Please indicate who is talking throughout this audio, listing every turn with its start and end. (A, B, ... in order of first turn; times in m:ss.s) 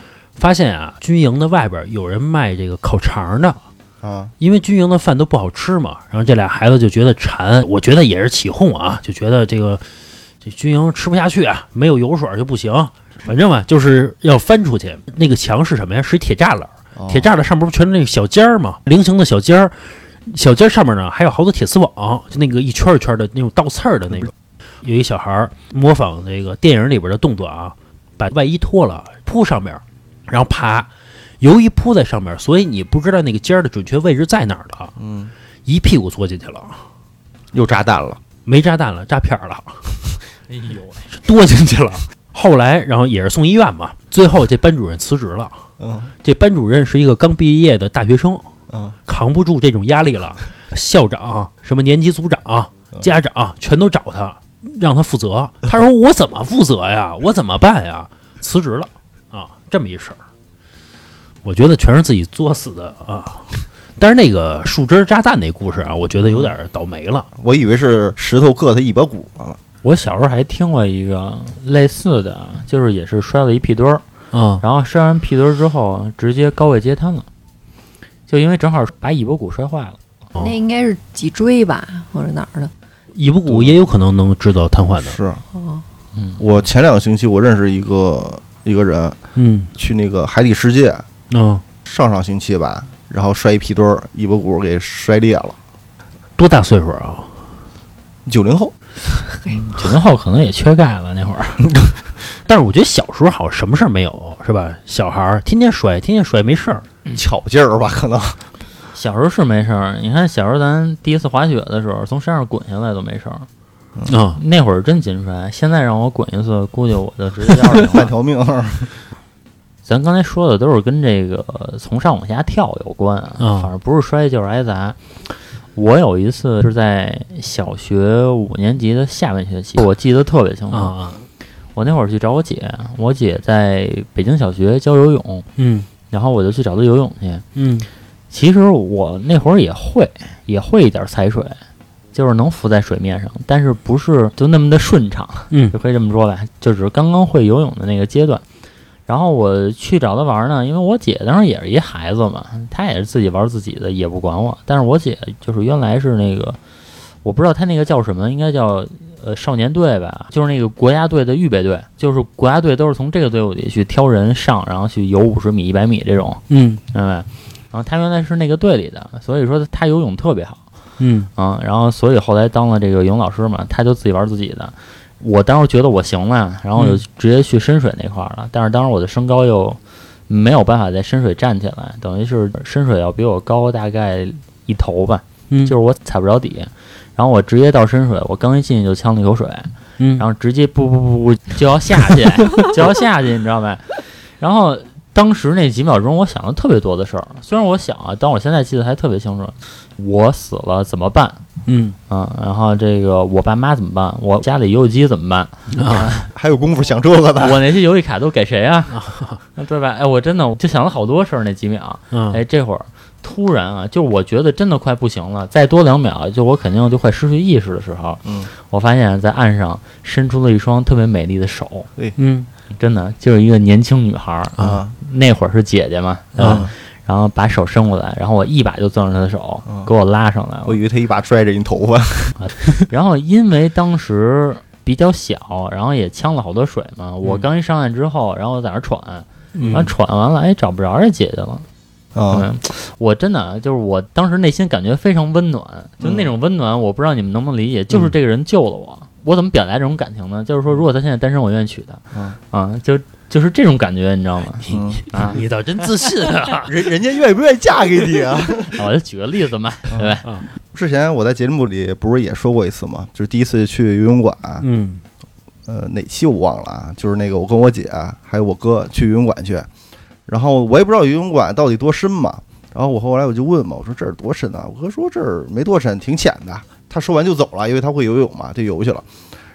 0:00.4-0:03.6 A
0:04.0-0:04.3 B
0:04.4-0:09.8 A
0:10.4-0:30.9 A
0:17.0-0:17.3 B
0:31.4-0:34.9 A
0:35.0-0:35.3 B
0:35.7-0:36.8 A
0:37.5-0:38.2 B
0:38.4-0:40.0 A
0:40.5-0:41.1 C
0:41.1-0:45.6 A
0:45.8-0:46.1 B
0:46.2-0:48.5 A
0:48.7-0:49.0 B
0:49.1-1:00.2 A
1:01.4-1:07.3 A
1:06.3-1:06.6 B
1:07.4-1:09.6 B
1:09.8-1:14.0 C
1:14.3-1:14.6 A
1:14.6-1:17.3 C
1:18.3-1:20.0 C
1:20.4-1:22.7 D
1:23.1-1:25.2 A
1:23.5-1:23.8 B
1:25.0-1:25.4 B
1:25.5-1:25.8 D
1:26.4-1:29.2 B
1:29.4-1:29.7 A
1:29.8-1:31.1 B
1:31.3-1:31.6 A
1:31.8-1:35.6 B
1:36.4-1:37.3 A
1:38.3-1:38.8 B
1:39.5-1:41.8 C
1:42.5-1:46.8 A
1:47.1-1:48.4 B
1:48.9-1:53.5 C
1:54.1-1:54.4 A
1:54.4-1:58.1 C
1:57.8-1:59.0 B
1:59.8-2:11.0 C
2:03.4-2:03.7 A
2:10.7-2:11.2 A
2:11.8-2:15.5 C
2:15.6-2:15.9 A
2:16.1-2:17.5 C
2:17.6-2:17.9 A
2:18.3-2:21.6 C
2:22.1-2:28.4 C
2:25.5-2:25.8 A
2:29.1-2:36.6 C
2:37.2-2:50.6 C
2:46.5-2:46.8 A
2:51.0-2:51.3 A
2:51.4-3:21.4 C
2:56.8-2:57.0 A
3:05.5-3:05.8 A
3:10.0-3:10.3 A
3:21.7-3:22.0 A
3:22.1-3:26.3 C
3:25.7-3:26.1 A
3:26.2-3:27.6 B
3:27.4-3:41.9 C
3:28.9-3:29.4 A
3:32.1-3:32.4 A
3:42.2-3:42.5 A
3:42.7-3:50.8 C
3:44.6-3:44.9 B
3:46.4-3:46.7 A
3:46.4-3:46.7 B
3:50.6-3:52.5 B
3:52.4-4:01.6 C
3:59.6-3:59.9 B
3:59.6-3:59.9 A
4:02.2-4:02.5 B
4:02.3-4:15.4 C
4:06.0-4:06.3 B
4:14.7-4:15.0 B
4:15.1-4:16.8 A
4:16.7-4:18.8 B
4:18.7-4:20.3 C
4:19.9-4:20.2 B
4:20.7-4:24.7 B
4:24.6-4:25.0 A
4:25.7-4:29.7 B
4:30.3-4:39.1 B